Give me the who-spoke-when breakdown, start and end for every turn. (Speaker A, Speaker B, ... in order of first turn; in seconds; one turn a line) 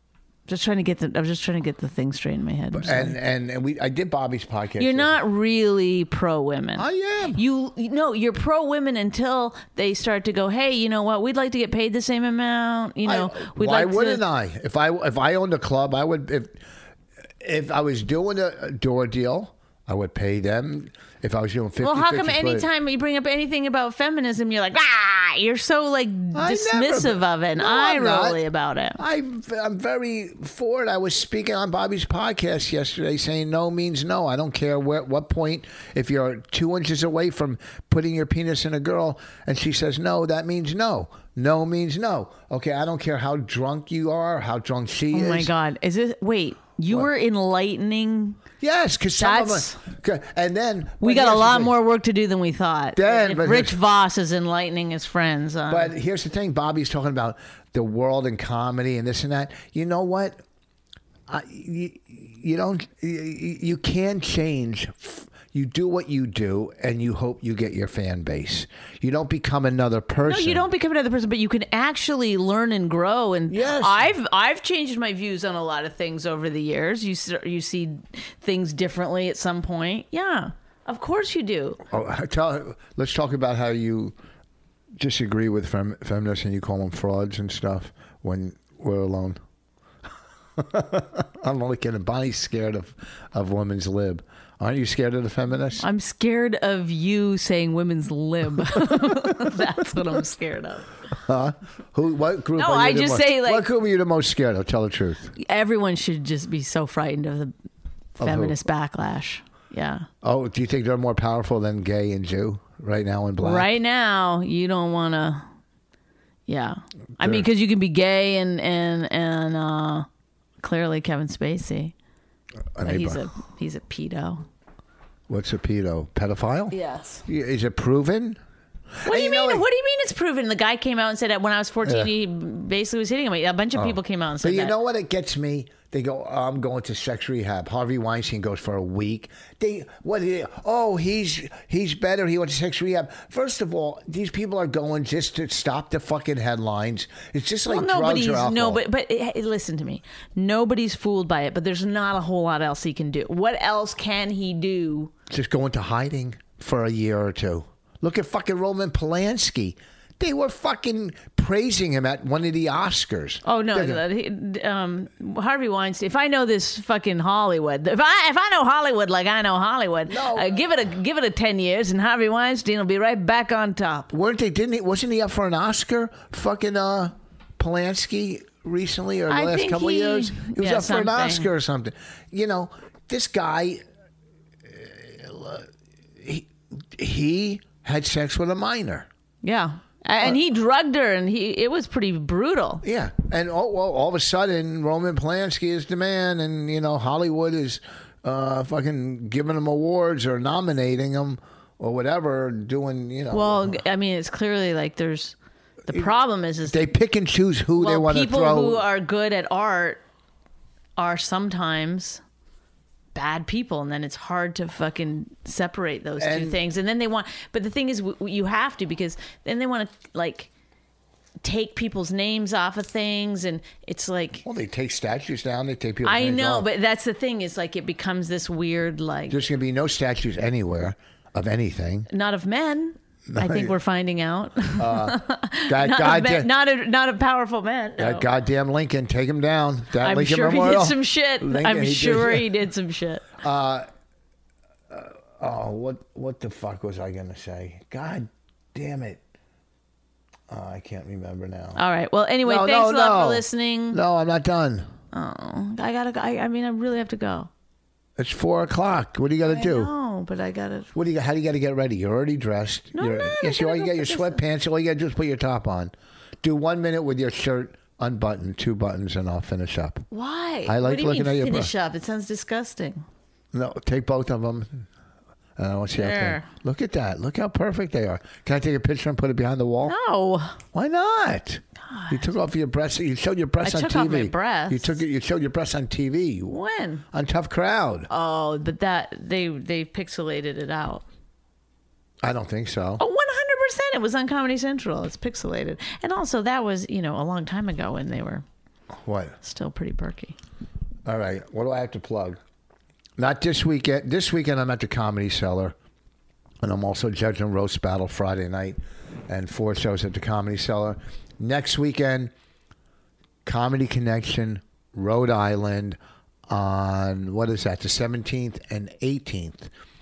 Speaker A: 0.5-3.1
Speaker B: 2.7-5.2
Speaker A: 4.8-14.2
Speaker B: 6.8-7.4
Speaker B: 13.0-16.6
Speaker B: 17.4-22.7
Speaker A: 21.8-29.0
Speaker B: 26.3-28.4
Speaker B: 29.0-45.5
Speaker A: 45.1-48.4
Speaker B: 48.6-51.7
Speaker A: 49.2-49.8
Speaker A: 51.0-55.9
Speaker B: 52.9-53.8
Speaker B: 55.7-60.4
Speaker B: 61.3-70.7
Speaker A: 70.2-81.8
Speaker B: 73.5-74.1
Speaker B: 81.9-84.1
Speaker B: 85.0-89.4
Speaker B: 90.6-95.8
Speaker A: 95.8-100.9
Speaker B: 99.1-99.3
Speaker B: 101.2-105.3
Speaker A: 102.5-103.7
Speaker A: 105.3-107.5
Speaker A: 108.2-110.1
Speaker B: 108.2-108.6
Speaker B: 110.2-113.7
Speaker A: 113.4-115.5
Speaker A: 116.5-120.1
Speaker B: 117.2-117.5
Speaker A: 120.6-121.9
Speaker B: 122.7-123.2
Speaker A: 122.8-124.4
Speaker B: 125.3-126.7
Speaker A: 126.7-127.2
Speaker B: 127.2-128.4
Speaker B: 129.0-129.6
Speaker A: 129.0-134.7
Speaker B: 131.8-132.1
Speaker B: 133.7-148.8
Speaker A: 147.7-155.1
Speaker B: 155.3-164.0
Speaker A: 163.4-174.1
Speaker B: 170.1-170.6
Speaker B: 174.1-183.8
Speaker A: 179.3-181.5
Speaker B: 184.6-189.1
Speaker A: 189.4-192.8
Speaker B: 192.8-203.8
Speaker A: 203.3-205.3
Speaker A: 205.9-206.9
Speaker B: 206.7-208.8
Speaker A: 207.8-210.0
Speaker A: 211.0-212.2
Speaker A: 213.1-220.5
Speaker B: 216.2-216.6
Speaker A: 221.4-224.4
Speaker B: 224.4-226.7
Speaker A: 226.0-229.4
Speaker B: 229.3-232.1
Speaker A: 232.1-238.3
Speaker B: 233.3-233.8
Speaker B: 234.8-236.5
Speaker B: 238.0-242.5
Speaker A: 240.0-243.3
Speaker B: 243.4-243.9
Speaker B: 244.9-249.2
Speaker B: 250.5-251.8
Speaker A: 251.7-254.0
Speaker B: 252.4-254.9
Speaker A: 255.1-257.5
Speaker B: 258.2-259.9
Speaker A: 259.4-260.9
Speaker B: 260.9-270.0
Speaker A: 262.9-264.4
Speaker A: 270.1-273.0
Speaker B: 270.6-271.7
Speaker B: 273.5-274.9
Speaker B: 275.6-279.9
Speaker A: 275.9-276.5
Speaker A: 279.8-280.6
Speaker B: 280.7-286.6
Speaker A: 281.9-282.3
Speaker A: 283.6-285.0
Speaker A: 286.5-287.0
Speaker B: 287.1-288.1
Speaker A: 288.1-291.0
Speaker B: 292.2-293.0
Speaker A: 293.0-298.4
Speaker B: 298.9-299.4
Speaker A: 299.4-300.4
Speaker B: 301.1-302.4
Speaker B: 303.2-305.7
Speaker B: 306.6-312.3
Speaker B: 313.4-316.0
Speaker B: 316.5-319.7